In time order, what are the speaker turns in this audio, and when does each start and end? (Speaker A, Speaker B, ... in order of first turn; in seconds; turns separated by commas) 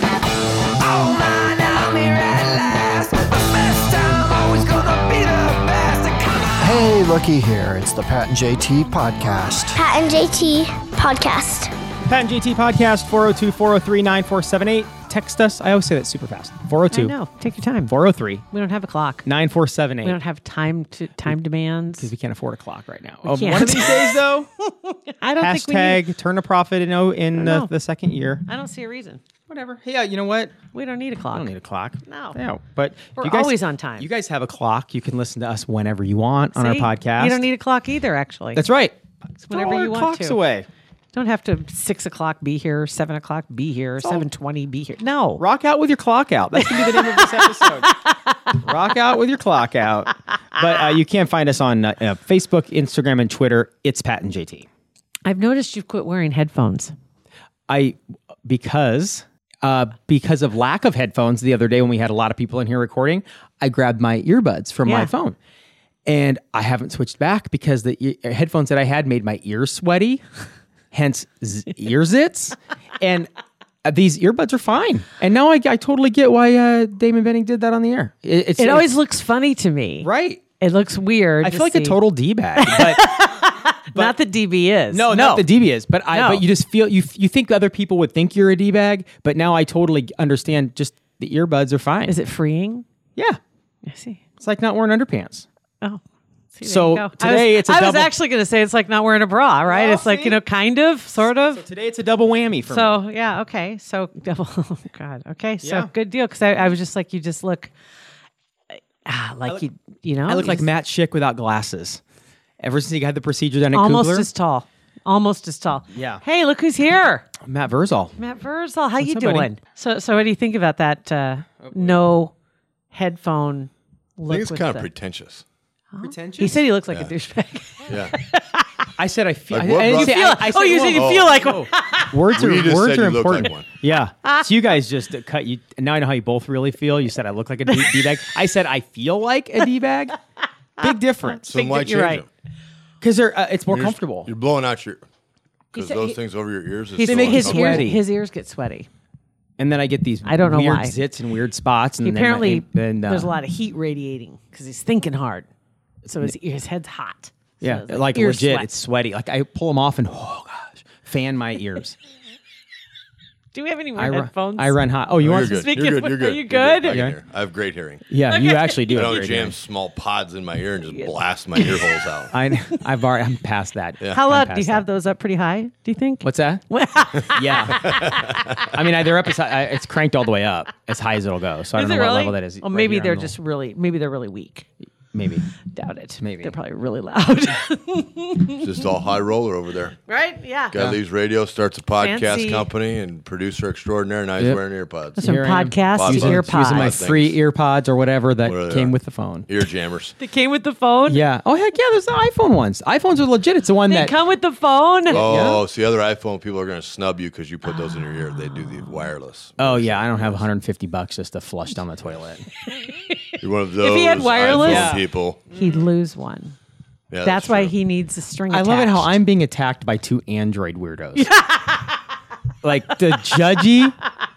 Speaker A: 0.7-6.7, Speaker B: 6.6-9.8, Speaker C: 9.7-11.7, Speaker D: 12.0-17.1, Speaker E: 16.9-17.9, Speaker D: 17.9-18.4, Speaker E: 18.5-19.3, Speaker D: 19.2-20.2, Speaker E: 20.0-22.1, Speaker D: 22.0-24.5, Speaker E: 23.2-26.0, Speaker D: 25.4-28.4, Speaker E: 27.4-27.7, Speaker E: 28.4-29.2, Speaker D: 29.5-30.6, Speaker E: 30.7-31.5, Speaker D: 31.3-37.4, Speaker E: 32.0-32.4, Speaker E: 33.1-34.1, Speaker E: 36.5-38.6, Speaker D: 38.5-39.0, Speaker E: 39.4-40.4, Speaker D: 39.5-40.7, Speaker E: 41.1-45.4, Speaker D: 45.4-48.0, Speaker E: 46.5-48.3, Speaker D: 48.5-54.7, Speaker E: 55.2-56.9, Speaker D: 57.7-65.4, Speaker E: 64.8-65.1, Speaker D: 66.0-70.2, Speaker D: 70.9-73.3, Speaker D: 73.8-78.9, Speaker E: 78.6-82.0, Speaker D: 80.0-80.4, Speaker D: 81.4-83.1, Speaker E: 82.6-85.5, Speaker D: 84.9-92.2, Speaker E: 86.1-86.4, Speaker E: 92.0-92.8, Speaker E: 93.8-94.2, Speaker D: 94.4-95.5, Speaker E: 96.5-101.6, Speaker D: 96.6-98.1, Speaker D: 99.7-100.4, Speaker D: 101.5-103.0, Speaker E: 102.7-107.7, Speaker D: 105.6-105.9, Speaker E: 108.7-110.7, Speaker D: 110.2-112.0, Speaker D: 112.6-114.3, Speaker E: 113.7-117.3, Speaker D: 115.9-116.2, Speaker D: 117.4-118.2, Speaker E: 118.2-122.3, Speaker D: 119.0-119.5, Speaker D: 121.6-122.0, Speaker E: 122.9-124.9, Speaker F: 124.3-125.4, Speaker E: 125.9-128.9, Speaker D: 126.0-126.7, Speaker F: 127.9-128.1, Speaker D: 129.0-140.1, Speaker F: 129.5-131.5, Speaker E: 129.7-132.1, Speaker F: 132.3-133.7, Speaker E: 134.2-134.5, Speaker E: 137.7-138.0, Speaker D: 140.8-141.5, Speaker E: 140.8-142.2, Speaker F: 141.4-142.3, Speaker D: 143.0-144.3, Speaker F: 143.7-145.0, Speaker E: 145.7-146.2, Speaker F: 145.7-147.9, Speaker E: 147.0-148.9, Speaker D: 147.0-148.0, Speaker D: 149.6-153.3, Speaker E: 150.2-151.0, Speaker E: 152.0-155.5, Speaker E: 156.0-158.7, Speaker D: 157.6-161.9, Speaker E: 163.5-164.8, Speaker D: 164.0-165.6, Speaker F: 165.2-168.0, Speaker E: 165.3-167.0, Speaker D: 166.9-167.2, Speaker D: 168.1-169.5, Speaker E: 168.3-168.9, Speaker F: 168.9-172.3, Speaker E: 170.9-172.0, Speaker D: 172.3-174.8, Speaker E: 174.1-178.3, Speaker D: 176.2-176.6, Speaker D: 177.3-178.1, Speaker F: 177.9-178.6, Speaker D: 178.6-183.3, Speaker E: 181.7-184.7, Speaker D: 185.1-185.4, Speaker E: 185.7-188.7, Speaker D: 186.2-186.5, Speaker F: 188.6-190.0, Speaker E: 190.1-190.7, Speaker F: 190.7-195.2, Speaker D: 190.7-191.0, Speaker E: 192.0-192.7, Speaker D: 195.2-199.5, Speaker E: 195.2-197.0, Speaker F: 195.9-197.4, Speaker F: 198.4-198.9, Speaker F: 199.5-200.2, Speaker E: 200.2-201.2, Speaker D: 201.1-204.2, Speaker E: 203.9-205.2, Speaker D: 205.1-205.6, Speaker F: 205.1-210.4, Speaker D: 209.6-212.4, Speaker E: 212.7-216.6, Speaker F: 213.4-215.4, Speaker D: 214.6-215.7, Speaker F: 217.1-217.7, Speaker E: 217.2-219.1, Speaker D: 218.5-221.3, Speaker E: 221.2-222.0, Speaker D: 222.6-224.0, Speaker E: 223.1-223.6